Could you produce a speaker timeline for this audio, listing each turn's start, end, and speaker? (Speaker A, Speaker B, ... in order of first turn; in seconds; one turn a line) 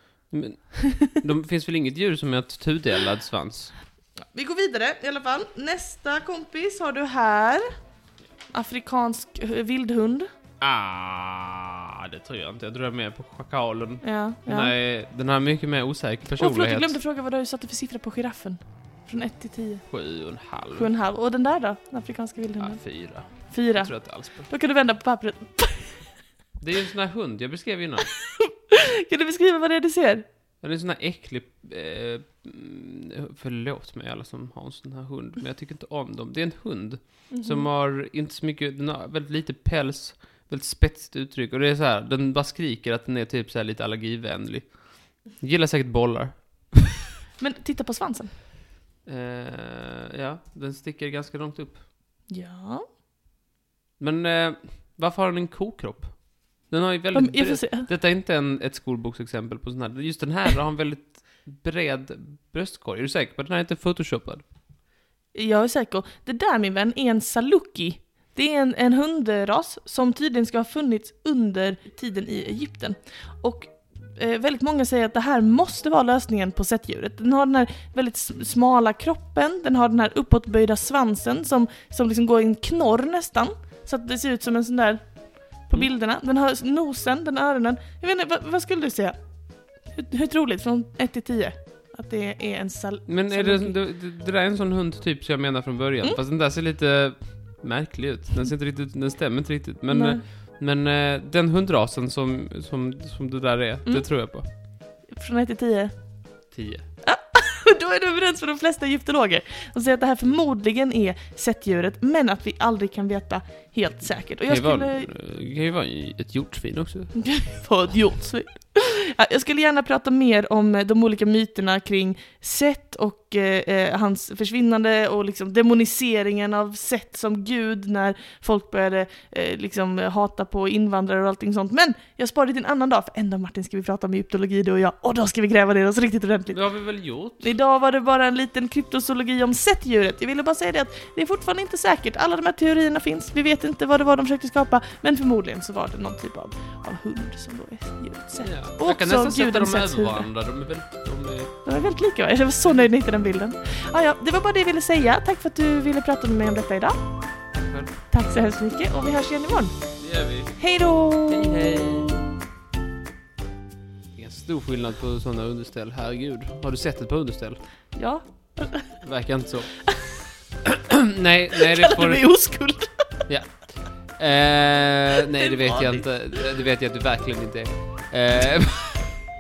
Speaker A: 0.3-3.7
Speaker B: 0.8-1.2
Speaker B: 4.3-7.7
Speaker B: 8.5-10.3
Speaker A: 10.6-17.0
Speaker B: 14.0-14.7
Speaker B: 16.4-19.8
Speaker A: 19.9-20.9
Speaker B: 20.8-26.1
Speaker A: 22.6-24.5
Speaker A: 26.6-28.1
Speaker B: 28.1-30.2
Speaker A: 30.6-46.9
Speaker B: 37.3-37.7
Speaker B: 47.4-48.3
Speaker A: 49.1-51.8
Speaker B: 52.3-52.9
Speaker A: 54.0-64.4
Speaker B: 57.1-57.9
Speaker B: 65.3-85.0
Speaker B: 85.7-89.2
Speaker B: 89.9-93.8
Speaker A: 93.1-104.5
Speaker B: 99.9-100.2
Speaker B: 105.1-105.9
Speaker A: 106.5-106.9
Speaker B: 107.0-115.1
Speaker A: 114.5-117.1
Speaker B: 117.1-136.6
Speaker A: 136.5-137.5
Speaker B: 137.4-150.3
Speaker A: 148.4-151.5
Speaker B: 151.7-157.0
Speaker A: 157.6-157.9
Speaker B: 158.1-159.7
Speaker A: 160.0-160.6
Speaker B: 160.6-161.8
Speaker A: 161.3-162.3
Speaker A: 164.2-167.6
Speaker B: 167.9-168.9
Speaker A: 169.0-169.7
Speaker A: 170.7-172.2
Speaker B: 171.5-173.1
Speaker A: 173.3-173.5
Speaker A: 174.1-179.2
Speaker B: 175.3-176.4